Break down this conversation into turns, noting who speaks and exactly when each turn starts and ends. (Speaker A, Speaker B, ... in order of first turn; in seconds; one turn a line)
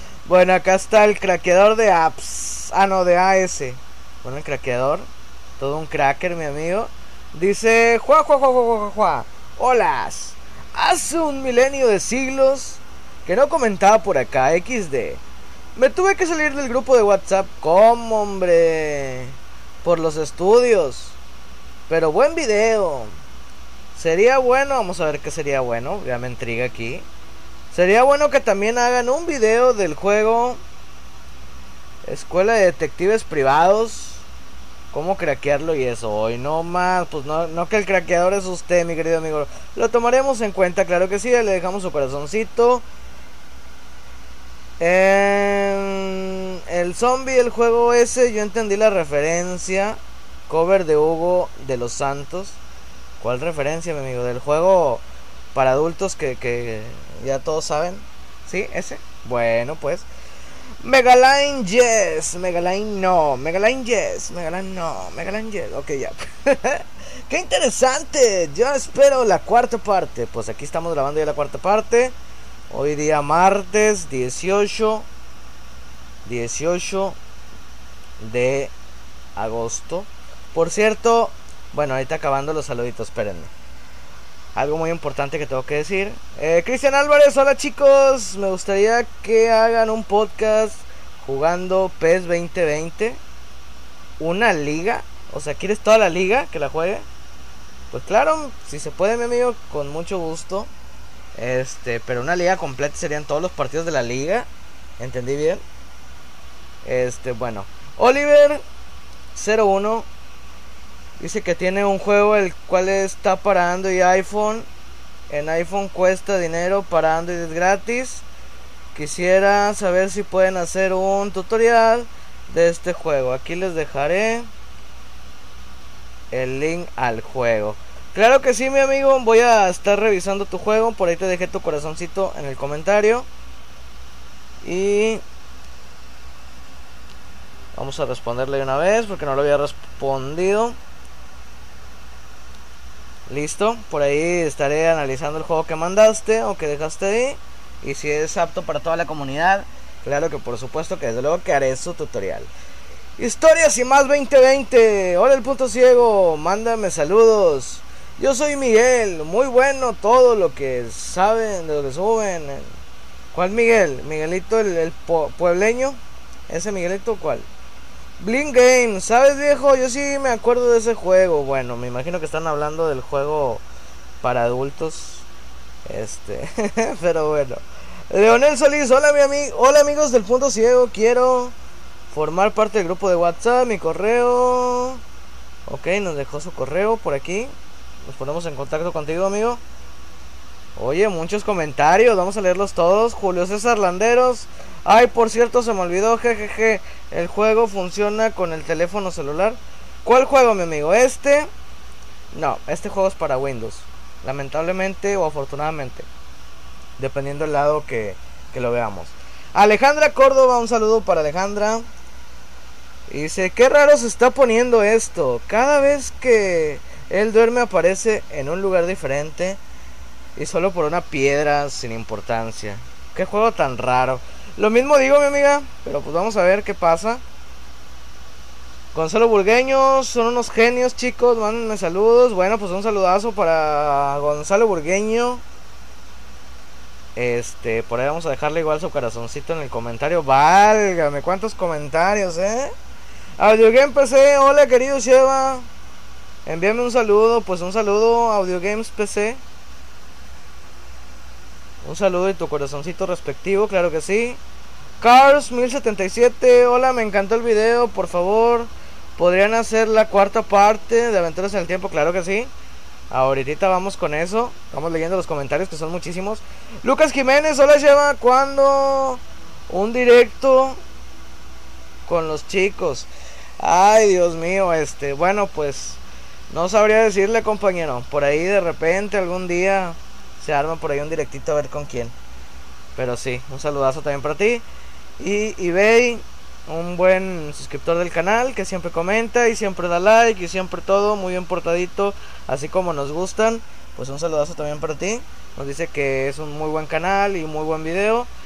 Speaker A: 0.3-5.1
Speaker A: 5.6-15.2
Speaker A: 15.8-21.2
Speaker A: 21.9-23.1
Speaker A: 23.9-27.1
Speaker A: 27.7-30.6
Speaker A: 32.0-34.2
Speaker A: 34.9-42.8
Speaker A: 44.8-52.6
Speaker A: 53.2-60.1
Speaker A: 60.8-72.2
Speaker A: 72.7-75.1
Speaker A: 76.2-77.2
Speaker A: 78.2-78.7
Speaker A: 79.4-83.5
Speaker A: 84.5-93.2
Speaker A: 94.2-97.1
Speaker A: 97.9-100.7
Speaker A: 101.3-104.5
Speaker A: 105.0-105.6
Speaker A: 106.8-108.6
Speaker A: 109.3-110.1
Speaker A: 111.2-114.7
Speaker A: 115.3-118.2
Speaker A: 118.9-124.5
Speaker A: 126.3-133.3
Speaker A: 134.6-135.2
Speaker A: 137.8-140.8
Speaker A: 143.3-152.5
Speaker A: 153.2-162.7
Speaker A: 163.3-167.5
Speaker A: 168.2-173.6
Speaker A: 174.2-175.2
Speaker A: 175.8-181.6
Speaker A: 182.1-185.0
Speaker A: 185.7-187.5
Speaker A: 188.1-189.6
Speaker A: 190.8-201.5
Speaker A: 202.3-206.1
Speaker A: 207.0-211.9
Speaker A: 213.1-219.6
Speaker A: 220.4-227.2
Speaker A: 228.9-235.4
Speaker A: 237.1-242.7
Speaker A: 243.4-245.7
Speaker A: 246.4-249.4
Speaker A: 251.8-254.4
Speaker A: 255.0-262.5
Speaker A: 263.1-270.8
Speaker A: 272.1-282.1
Speaker A: 282.9-284.6
Speaker A: 285.2-298.3